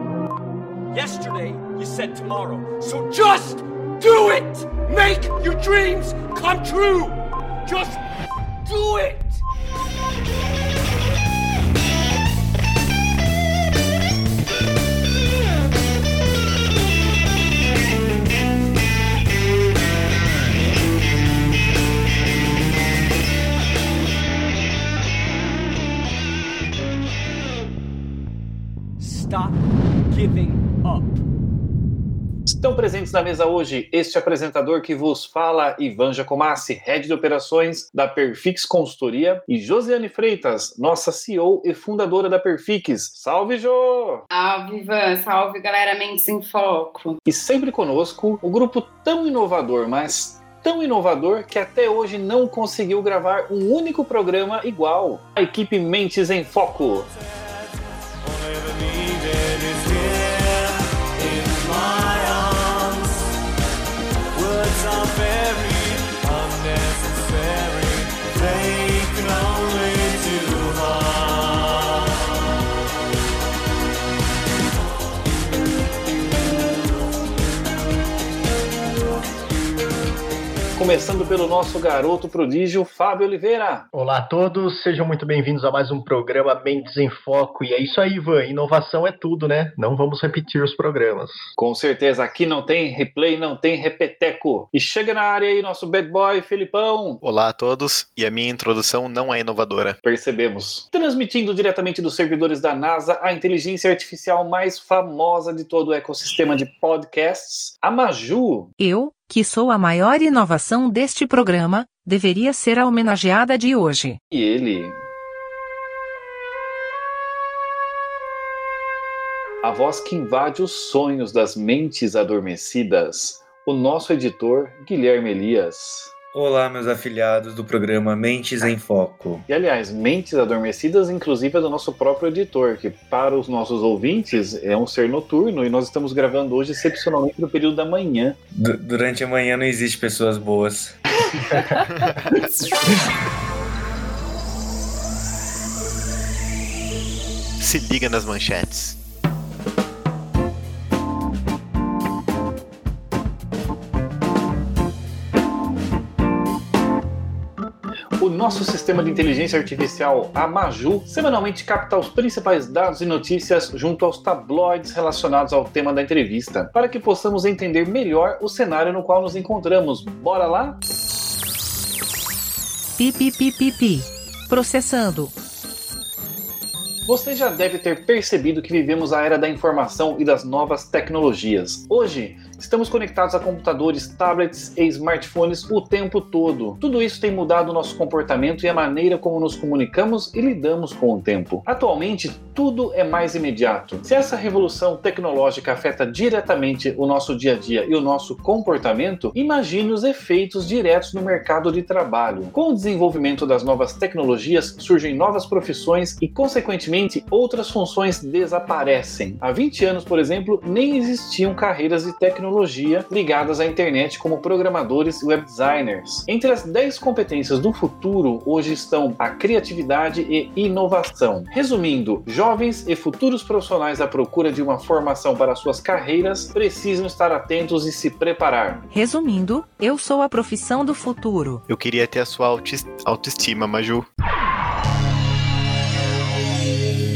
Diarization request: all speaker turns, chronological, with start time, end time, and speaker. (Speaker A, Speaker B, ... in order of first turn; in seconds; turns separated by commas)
Speaker A: 0.9-8.0, Speaker A: 8.7-9.4, Speaker A: 29.0-31.2, Speaker B: 32.5-44.2, Speaker C: 44.3-47.2, Speaker B: 47.3-57.1, Speaker D: 58.4-60.4, Speaker D: 61.2-63.1, Speaker D: 64.4-71.8, Speaker B: 80.8-83.9, Speaker E: 83.9-91.4, Speaker B: 91.6-97.2, Speaker F: 97.2-100.0, Speaker B: 100.0-108.7, Speaker G: 108.8-114.2, Speaker B: 114.3-115.0, Speaker B: 119.6-126.1, Speaker D: 126.3-129.4, Speaker B: 129.5-138.4, Speaker D: 138.5-141.0, Speaker F: 142.0-142.5, Speaker F: 147.6-149.0, Speaker B: 158.2-170.8, Speaker G: 173.0-175.3, Speaker B: 177.1-228.8, Speaker G: 228.9-231.6, Speaker F: 231.7-234.1